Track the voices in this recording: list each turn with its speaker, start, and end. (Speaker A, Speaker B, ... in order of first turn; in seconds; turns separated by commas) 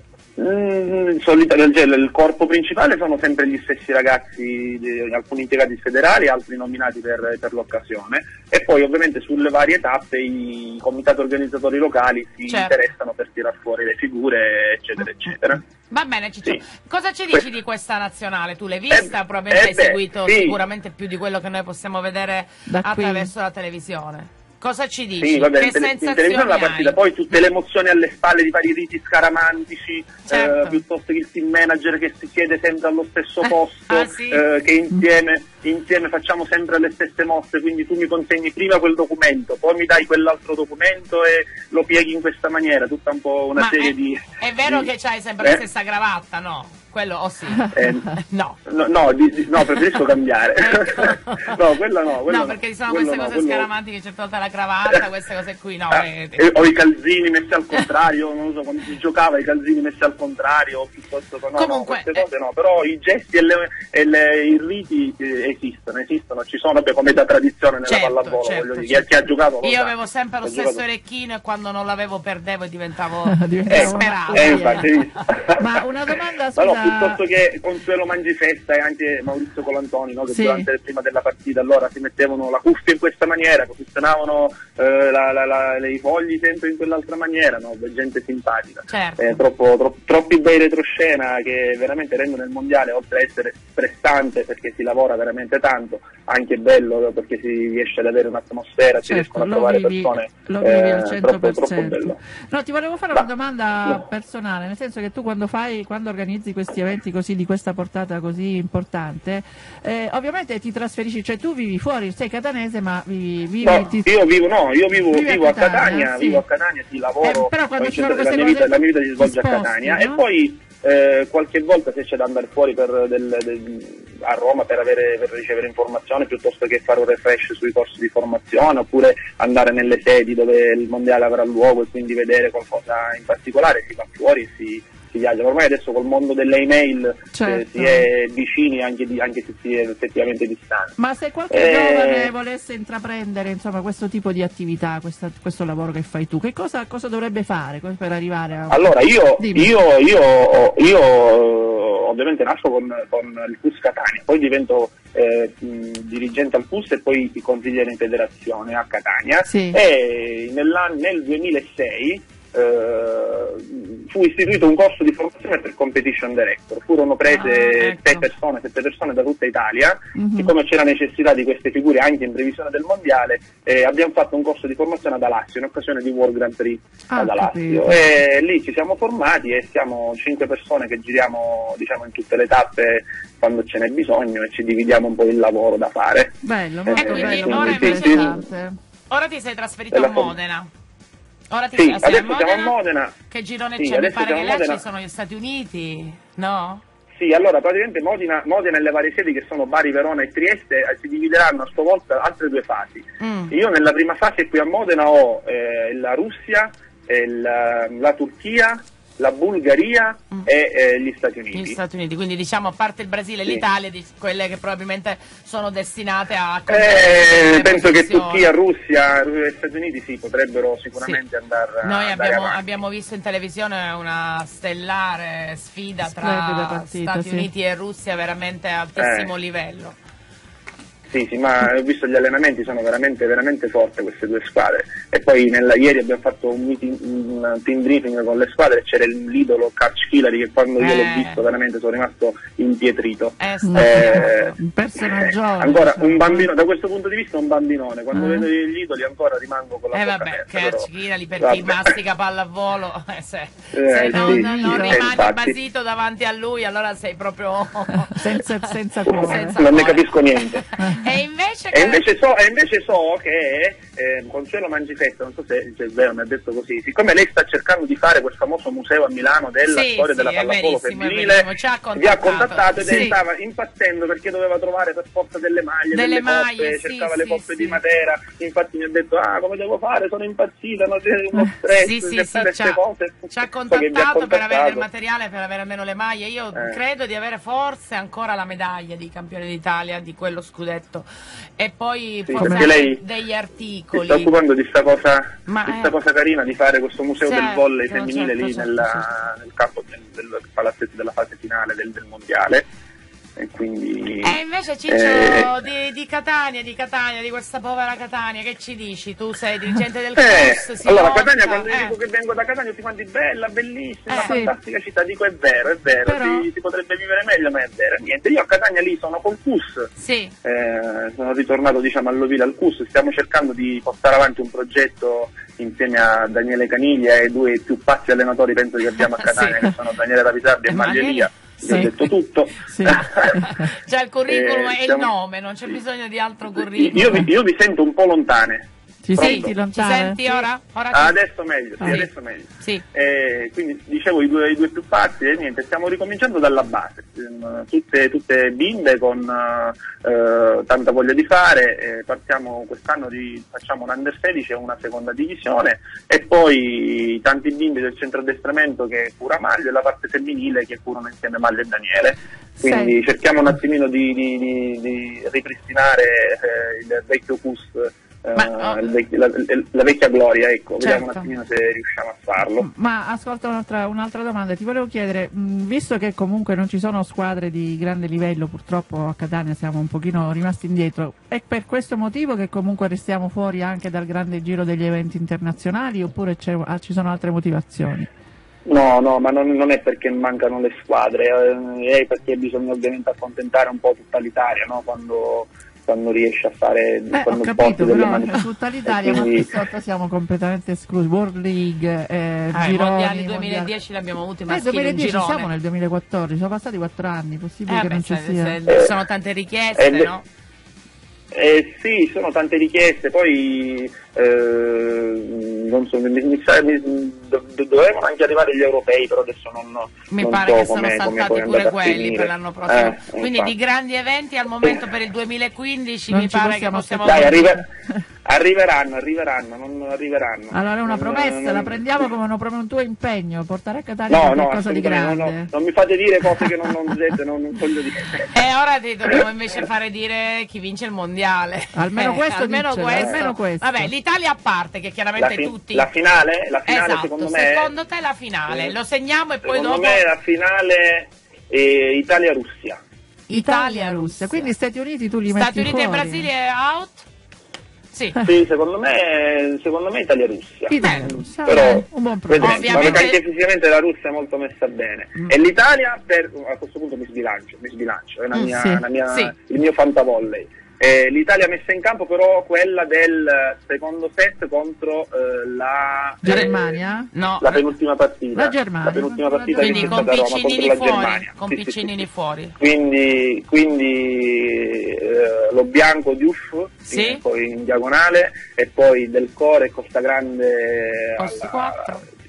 Speaker A: 0.4-15.6, Speaker B: 12.5-12.7, Speaker B: 15.9-26.9, Speaker A: 18.9-20.6, Speaker C: 22.7-23.3, Speaker A: 25.2-44.9, Speaker B: 30.3-30.8, Speaker B: 33.4-34.4, Speaker B: 43.6-48.6, Speaker A: 47.7-48.1, Speaker A: 48.7-53.7, Speaker B: 50.6-51.6, Speaker B: 52.3-56.5, Speaker A: 55.9-69.9, Speaker B: 61.5-62.2, Speaker B: 67.8-69.1, Speaker B: 69.6-75.0, Speaker A: 70.4-70.8, Speaker C: 73.2-74.9, Speaker A: 73.7-75.7, Speaker C: 75.5-77.2, Speaker A: 76.6-102.2, Speaker C: 80.3-80.7, Speaker B: 88.9-89.2, Speaker C: 99.0-114.1, Speaker A: 113.6-140.9, Speaker C: 115.0-116.4, Speaker C: 117.2-120.2, Speaker C: 137.3-138.1, Speaker C: 141.0-149.7, Speaker A: 141.5-142.3, Speaker A: 148.7-186.4, Speaker C: 159.4-159.8, Speaker B: 167.3-168.3, Speaker C: 170.2-170.5, Speaker C: 177.1-178.0, Speaker C: 186.4-188.8, Speaker A: 186.9-188.3, Speaker B: 186.9-188.4, Speaker B: 189.1-190.7, Speaker A: 189.9-190.3, Speaker B: 191.5-192.7, Speaker A: 191.7-193.1, Speaker B: 193.3-196.8, Speaker A: 193.8-194.8, Speaker A: 197.2-211.8, Speaker B: 203.2-203.5, Speaker B: 211.5-218.5, Speaker A: 216.7-222.6, Speaker B: 221.8-229.9, Speaker C: 226.0-227.5, Speaker A: 229.0-229.3, Speaker A: 231.1-244.5, Speaker B: 240.8-241.4, Speaker B: 243.4-244.5, Speaker C: 243.6-246.5, Speaker A: 245.2-250.9, Speaker C: 248.1-248.5, Speaker B: 249.9-258.4, Speaker A: 251.4-251.9, Speaker A: 253.7-255.5, Speaker C: 254.1-255.2, Speaker C: 258.1-259.7, Speaker A: 259.1-260.6, Speaker B: 259.1-262.0, Speaker A: 261.7-284.8, Speaker B: 269.7-273.2, Speaker C: 272.8-273.1, Speaker B: 275.9-277.8, Speaker B: 281.7-282.8, Speaker B: 283.3-291.1, Speaker B: 291.6-294.3, Speaker A: 292.2-293.0, Speaker C: 292.4-292.7, Speaker A: 293.9-302.6, Speaker B: 295.5-295.9, Speaker B: 297.2-299.1, Speaker A: 303.4-305.5, Speaker B: 304.2-311.9, Speaker A: 310.1-319.9, Speaker C: 314.1-314.5, Speaker B: 314.1-314.4, Speaker C: 316.0-316.5, Speaker B: 320.0-320.3, Speaker A: 320.4-333.4, Speaker B: 329.2-329.6, Speaker B: 330.7-331.9, Speaker C: 331.6-331.9, Speaker C: 332.6-333.7, Speaker B: 332.9-337.3, Speaker A: 334.3-335.1, Speaker A: 336.6-339.5, Speaker C: 339.0-340.4, Speaker B: 339.2-341.2, Speaker A: 340.9-372.7, Speaker C: 341.8-342.0, Speaker C: 362.6-362.9, Speaker B: 368.4-368.9, Speaker B: 370.8-371.2, Speaker C: 372.6-388.1, Speaker A: 388.6-399.5, Speaker C: 397.1-403.7, Speaker B: 402.5-405.5, Speaker C: 404.5-408.8, Speaker B: 407.7-410.2, Speaker A: 408.7-408.9, Speaker A: 409.8-410.1, Speaker A: 411.3-423.5, Speaker B: 420.1-427.6, Speaker C: 426.1-428.0, Speaker A: 427.1-427.6, Speaker A: 428.2-432.0, Speaker C: 430.5-435.5, Speaker A: 434.1-438.3, Speaker C: 436.2-436.5, Speaker B: 438.3-445.9, Speaker C: 441.7-443.9, Speaker A: 442.9-443.2, Speaker A: 445.2-447.7, Speaker B: 446.6-450.0, Speaker A: 448.5-448.8, Speaker A: 449.4-452.8, Speaker B: 453.3-454.5, Speaker C: 453.3-456.3, Speaker B: 455.3-457.0, Speaker B: 457.9-458.2, Speaker A: 458.2-476.7, Speaker C: 460.7-463.1, Speaker B: 460.8-461.7, Speaker B: 462.4-463.2, Speaker C: 468.4-468.8, Speaker B: 469.1-469.3, Speaker C: 476.2-477.1, Speaker B: 476.3-476.5, Speaker B: 477.1-477.7, Speaker A: 477.4-482.0, Speaker C: 478.3-480.3, Speaker B: 479.6-482.6, Speaker A: 482.6-491.7, Speaker B: 486.9-487.2, Speaker B: 491.2-492.0